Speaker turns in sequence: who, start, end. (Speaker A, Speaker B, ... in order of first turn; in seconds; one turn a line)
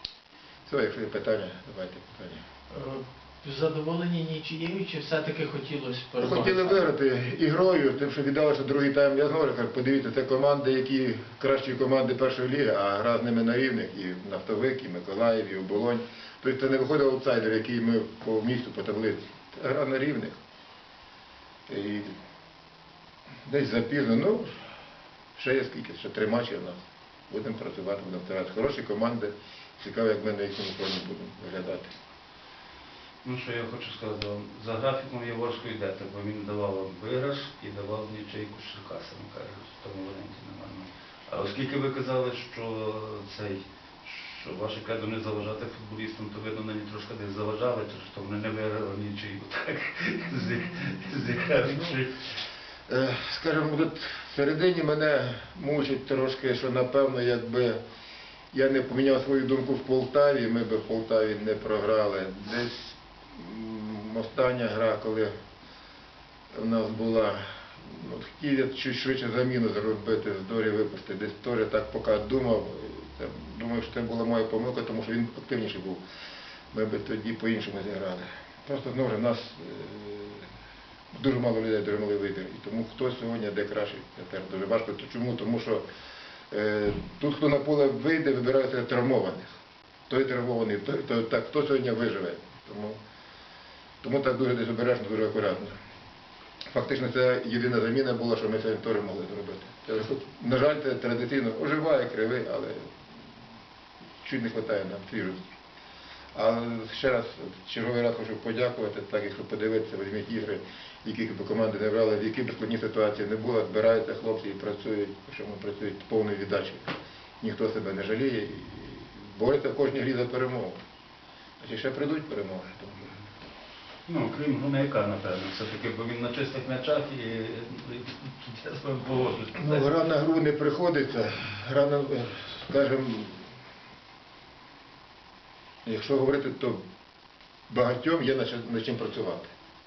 Speaker A: 0.7-2.4
Speaker B: 2.7-6.8
Speaker A: 6.2-20.4
Speaker A: 21.7-22.1
Speaker A: 23.4-24.5
Speaker A: 25.3-31.9
Speaker C: 33.2-52.3
Speaker A: 52.9-57.8
Speaker A: 58.5-65.3
Speaker A: 66.5-76.0
Speaker A: 76.7-80.5
Speaker A: 81.1-85.8
Speaker A: 86.5-93.0
Speaker A: 94.0-95.8
Speaker A: 96.7-102.9
Speaker A: 104.2-105.5
Speaker A: 106.3-120.8
Speaker A: 121.6-123.2
Speaker C: 124.1-129.9
Speaker A: 129.6-133.5
Speaker A: 135.8-136.8
Speaker A: 137.7-139.5